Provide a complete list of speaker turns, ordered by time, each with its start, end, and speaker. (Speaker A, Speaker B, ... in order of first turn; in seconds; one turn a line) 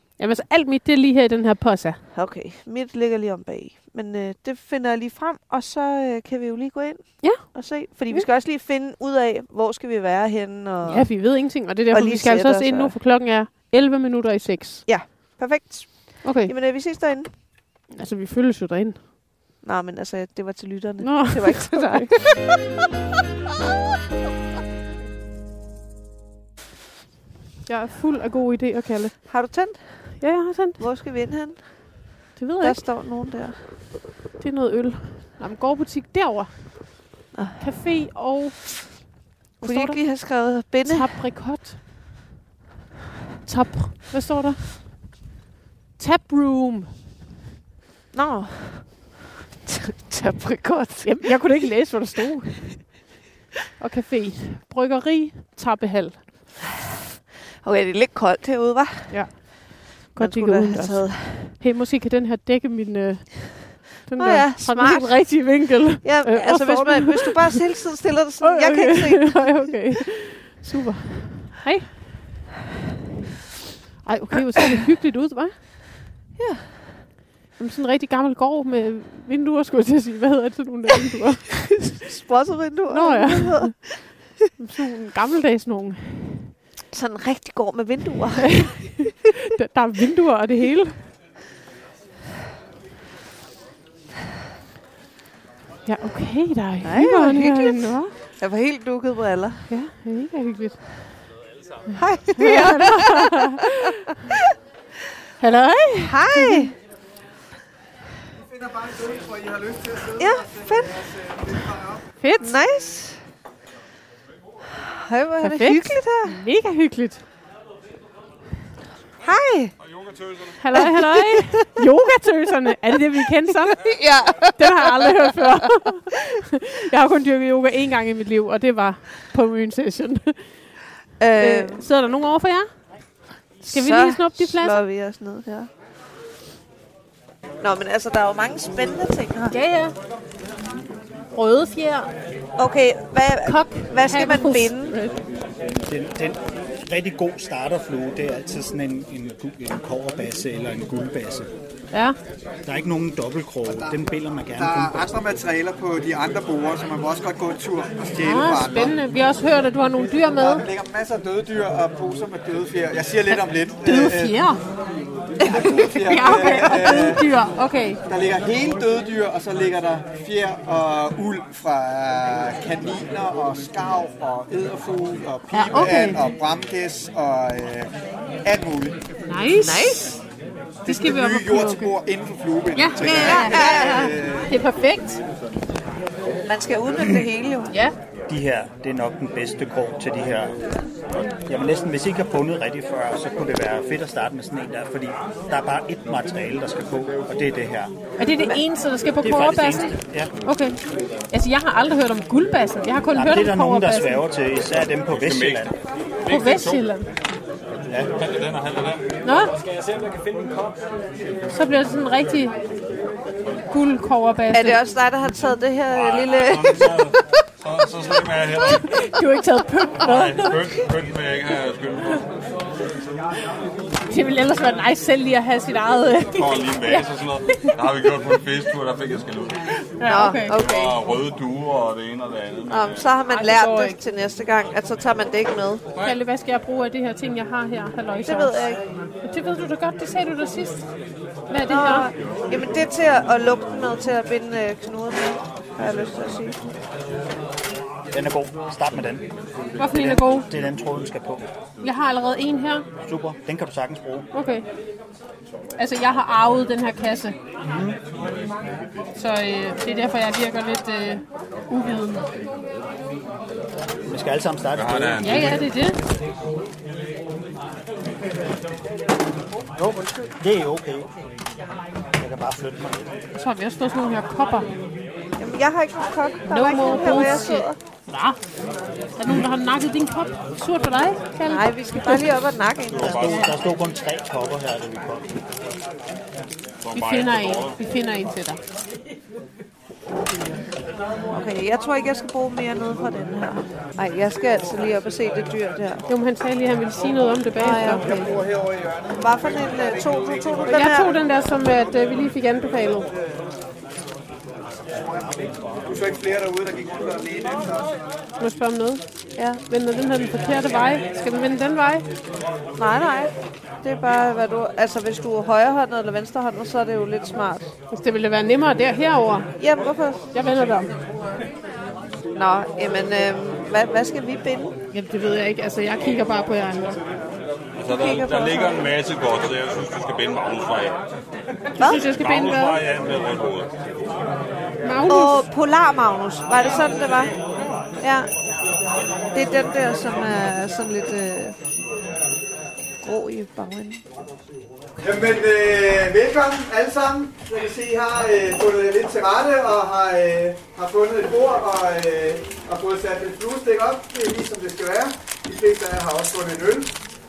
Speaker A: 0.2-2.0
Speaker B: 2.1-12.9
Speaker A: 7.2-7.5
Speaker A: 10.8-14.9
Speaker B: 14.8-17.3
Speaker A: 16.2-16.5
Speaker A: 17.9-19.0
Speaker B: 19.6-22.5
Speaker A: 21.0-22.1
Speaker A: 27.6-29.3
Speaker B: 29.3-33.7
Speaker A: 30.2-30.8
Speaker A: 32.4-32.8
Speaker A: 34.4-39.0
Speaker B: 37.3-37.7
Speaker A: 39.6-41.8
Speaker B: 39.6-41.2
Speaker A: 43.4-45.1
Speaker A: 46.0-46.9
Speaker B: 48.1-51.4
Speaker A: 51.0-53.1
Speaker A: 53.8-56.3
Speaker B: 57.6-59.5
Speaker A: 59.1-67.7
Speaker B: 60.1-61.5
Speaker B: 64.2-69.6
Speaker A: 68.4-72.1
Speaker A: 74.0-75.6
Speaker B: 76.3-76.9
Speaker A: 77.5-81.7
Speaker B: 81.8-84.2
Speaker A: 82.9-86.5
Speaker B: 86.9-89.0
Speaker A: 88.6-91.0
Speaker A: 95.8-98.1
Speaker B: 96.8-99.7
Speaker A: 99.7-101.2
Speaker A: 101.9-103.7
Speaker B: 102.0-103.4
Speaker A: 105.4-106.7
Speaker B: 106.0-106.7
Speaker C: 108.3-112.0
Speaker B: 110.2-111.0
Speaker A: 112.2-112.5
Speaker B: 112.4-113.2
Speaker B: 114.8-116.4
Speaker A: 115.4-117.2
Speaker B: 119.2-119.7
Speaker D: 119.8-120.6
Speaker A: 120.6-123.9
Speaker B: 120.8-121.5
Speaker B: 123.8-125.2
Speaker A: 124.6-130.7
Speaker B: 131.2-131.8
Speaker A: 131.4-133.1
Speaker B: 133.6-135.7
Speaker A: 133.7-134.8
Speaker B: 137.6-139.6
Speaker A: 139.5-139.9
Speaker A: 141.3-142.1
Speaker B: 142.6-145.0
Speaker A: 143.4-145.2
Speaker E: 145.8-151.5
Speaker E: 152.6-155.1
Speaker C: 153.7-154.0
Speaker C: 154.5-159.0
Speaker A: 158.2-160.6
Speaker C: 160.3-164.4
Speaker A: 163.3-164.6
Speaker C: 165.4-167.3
Speaker B: 165.4-165.9
Speaker A: 165.9-168.0
Speaker C: 168.1-177.9
Speaker A: 175.5-176.2
Speaker C: 178.4-179.0
Speaker A: 179.2-180.1
Speaker B: 179.6-180.2
Speaker C: 180.8-184.5
Speaker A: 180.8-181.9
Speaker A: 182.7-185.2
Speaker B: 183.0-184.1
Speaker B: 186.5-187.7
Speaker A: 187.7-187.9
Speaker E: 188.3-190.5
Speaker E: 191.5-197.9
Speaker A: 198.2-204.2
Speaker E: 199.2-200.3
Speaker E: 203.1-205.8
Speaker D: 205.1-206.9
Speaker A: 206.3-207.1
Speaker D: 208.1-209.0
Speaker A: 209.2-209.5
Speaker A: 211.5-212.5
Speaker A: 213.7-214.8
Speaker B: 214.5-217.1
Speaker D: 215.9-218.9
Speaker A: 218.6-220.6
Speaker D: 220.0-222.3
Speaker A: 224.1-227.7
Speaker D: 226.3-229.6
Speaker A: 230.0-230.6
Speaker B: 230.0-231.0
Speaker D: 230.5-233.1
Speaker B: 232.7-235.8
Speaker A: 233.3-234.0
Speaker A: 236.0-240.8
Speaker B: 238.2-238.8
Speaker A: 241.5-242.1
Speaker B: 241.7-246.6
Speaker E: 248.1-249.2
Speaker A: 249.8-250.5
Speaker E: 249.8-251.4
Speaker A: 251.8-252.9
Speaker E: 253.0-254.2
Speaker A: 254.3-254.6
Speaker A: 255.8-257.4
Speaker E: 257.6-258.0
Speaker A: 259.1-262.2
Speaker E: 264.0-265.6
Speaker D: 264.7-265.7
Speaker A: 265.2-266.0
Speaker E: 269.8-271.1
Speaker E: 272.2-273.1
Speaker A: 273.3-274.7
Speaker B: 275.4-277.8
Speaker A: 276.5-278.4
Speaker A: 279.2-282.2
Speaker B: 281.4-283.2
Speaker D: 282.9-283.5
Speaker E: 283.1-285.3
Speaker D: 286.8-287.8
Speaker A: 286.9-288.6
Speaker B: 291.3-296.0
Speaker A: 296.1-298.1
Speaker B: 297.6-298.3
Speaker C: 298.0-302.3
Speaker B: 299.2-301.1
Speaker A: 300.7-303.1
Speaker C: 303.1-303.4
Speaker C: 304.7-308.0
Speaker A: 308.4-312.0
Speaker B: 312.8-317.7
Speaker A: 317.9-319.5
Speaker B: 319.6-320.2
Speaker A: 320.3-320.9
Speaker B: 322.3-324.7
Speaker A: 324.9-327.0
Speaker D: 327.8-330.9
Speaker B: 327.9-328.9
Speaker A: 331.8-332.8
Speaker B: 331.8-332.1
Speaker D: 332.1-333.7
Speaker A: 334.8-335.5
Speaker B: 335.1-337.3
Speaker B: 338.0-338.3
Speaker B: 339.3-341.5
Speaker B: 343.0-344.0
Speaker C: 345.0-356.9